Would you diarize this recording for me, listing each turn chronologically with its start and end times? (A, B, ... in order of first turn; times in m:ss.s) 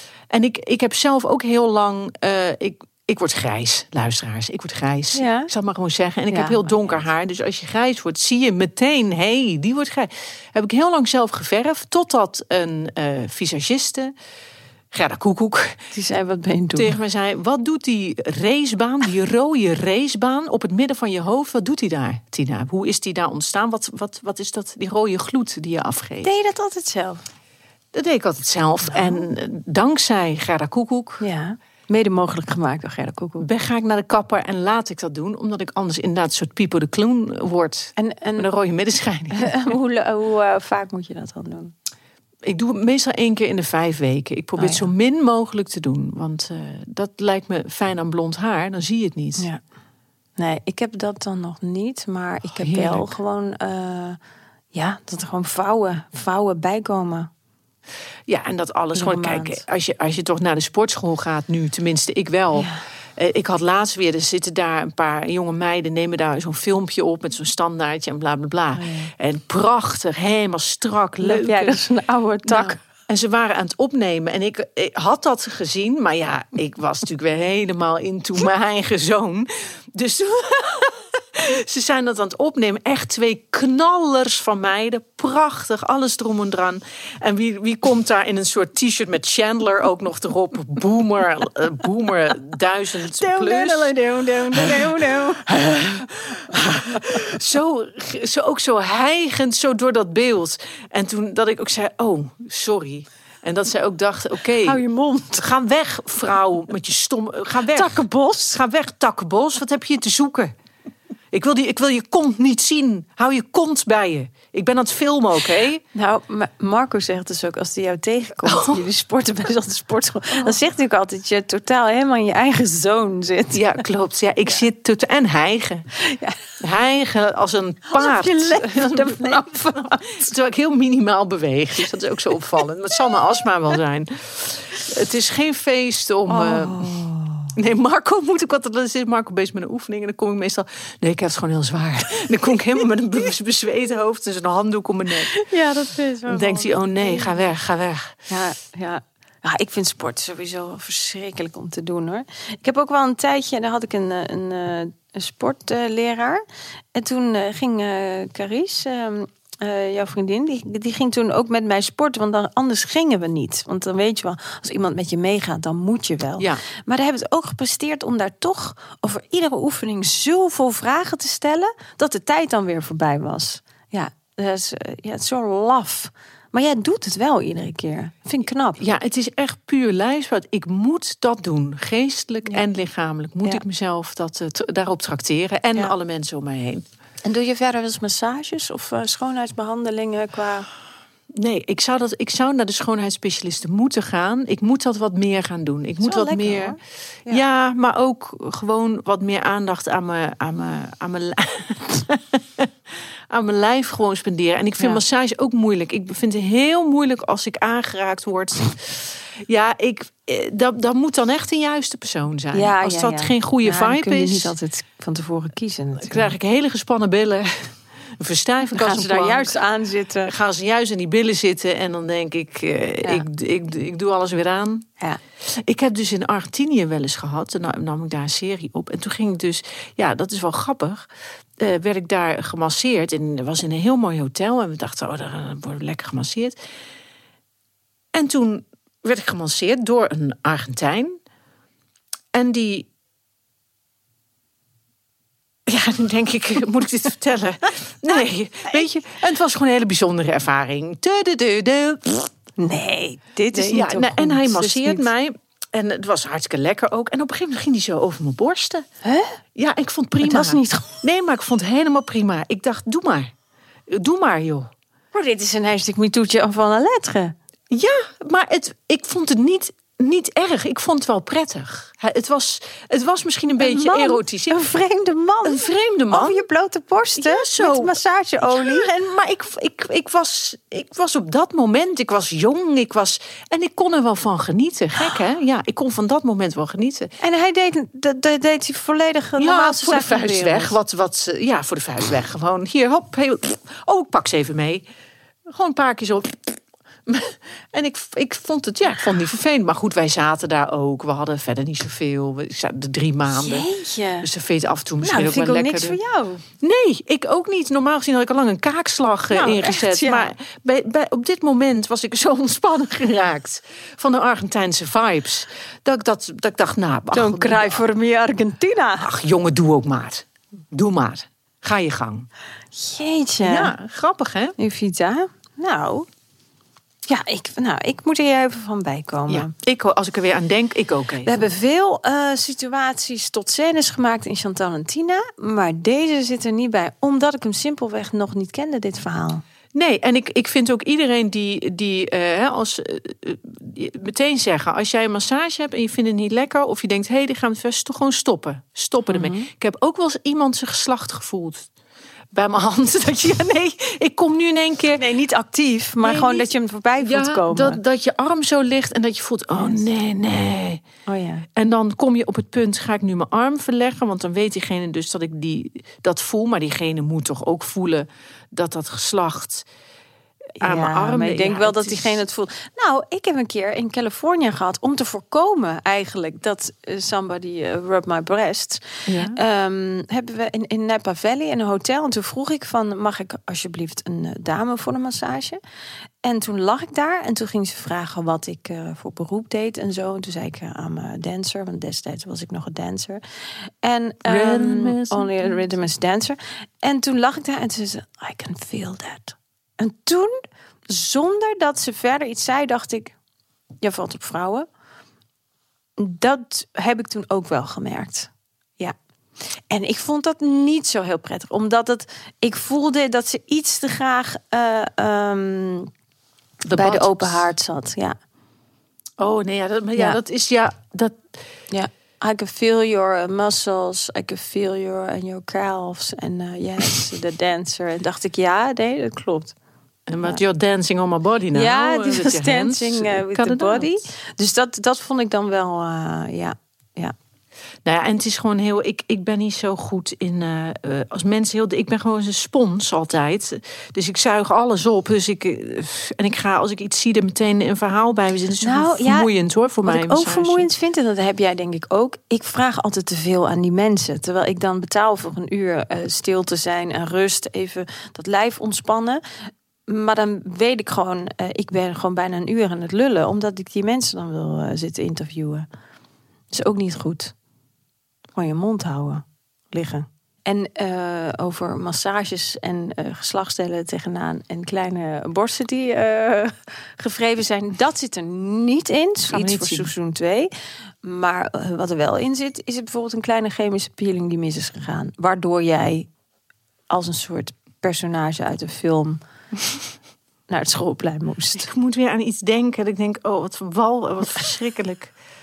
0:00.3-0:14.1 A
0:05.1-0:05.5 B
0:06.3-0:06.9 B
0:14.9-0:15.8 A
0:15.9-0:16.9 B
0:16.8-0:26.3 A
0:26.2-0:27.2 B
0:27.9-0:31.2 A
0:28.9-0:29.2 B
0:31.2-0:33.5 B
0:33.4-0:39.7 A
0:38.0-0:38.5 B
0:39.3-0:41.7 B
0:42.4-0:49.5 A
0:44.6-0:44.9 B
0:50.4-0:54.2 B
0:52.4-0:53.1 A
0:54.7-0:57.3 B
0:58.3-1:11.8 A
0:58.9-0:59.6 B
1:02.6-1:02.8 B
1:08.7-1:09.1 B
1:11.2-1:12.8 B
1:12.4-1:34.0 A
1:33.2-1:37.0 B
1:34.5-1:44.8 A
1:44.6-1:45.5 B
1:45.4-1:48.0 A
1:47.7-1:48.6 B
1:48.5-1:50.5 A
1:51.3-1:55.8 A
1:55.9-2:03.6 B
1:58.5-1:58.8 A
2:03.5-2:05.9 A
2:06.0-2:06.4 B
2:06.6-2:16.9 A
2:07.9-2:10.3 B
2:16.3-2:17.5 B
2:17.6-2:25.3 A
2:25.3-2:27.4 B
2:26.3-2:28.2 A
2:28.3-2:36.4 B
2:37.0-2:58.8 B
2:58.8-3:06.8 A
3:07.2-3:10.7 B
3:11.4-3:16.8 A
3:16.0-3:17.4 B
3:17.3-3:22.7 A
3:23.3-3:34.5 A
3:32.5-3:36.4 B
3:36.0-3:39.5 A
3:38.7-3:40.3 B
3:40.2-3:44.9 A
3:45.5-3:51.0 A
3:51.6-3:56.6 A
3:58.1-4:01.2 A
4:02.3-4:02.9 A
4:05.7-4:12.3 A
4:12.6-4:15.1 B
4:13.5-4:18.8 A
4:19.0-4:19.4 B
4:19.6-4:23.3 A
4:20.2-4:21.0 B
4:23.9-4:24.7 A
4:25.1-4:27.4 B
4:27.7-4:34.5 A
4:33.6-4:39.0 B
4:35.4-4:36.4 A
4:37.2-4:47.1 A
4:47.2-4:50.8 B
4:49.4-4:54.9 A
4:55.5-5:03.7 A
5:03.3-5:04.3 B
5:04.2-5:06.0 A
5:05.0-5:06.4 B
5:06.6-5:17.8 A
5:09.3-5:10.3 B
5:17.1-5:19.1 B
5:19.0-5:22.3 A
5:22.7-5:23.7 B
5:23.4-5:24.6 A
5:24.6-5:26.1 B
5:27.1-5:29.5 B
5:29.3-5:31.5 A
5:31.2-5:39.4 B
5:39.7-5:51.7 A
5:49.1-5:49.5 B
5:52.3-5:55.0 A
5:55.0-5:57.8 B
5:56.0-6:00.8 A
5:59.6-5:59.8 B
6:01.1-6:01.5 B
6:01.6-6:09.7 A
6:10.6-6:25.6 B
6:10.6-6:12.2 A
6:19.1-6:19.4 A
6:26.2-6:33.2 B
6:33.8-6:43.2 B
6:34.2-6:35.7 A
6:43.8-6:44.7 B
6:46.0-6:49.0 B
6:49.7-6:55.9 B
6:56.6-6:57.5 A
6:56.7-6:58.2 B
6:59.2-7:01.2 A
7:01.7-7:09.6 B
7:10.1-7:13.9 A
7:11.5-7:17.1 B
7:17.8-7:30.7 A
7:28.6-7:29.3 B
7:29.8-7:39.2 B
7:39.9-7:45.7 B
7:46.5-7:47.3 B
7:48.4-8:00.5 B
7:59.3-7:59.9 A
8:01.0-8:06.1 B
8:06.9-8:09.2 B
8:10.5-8:11.7 B
8:11.6-8:15.1 A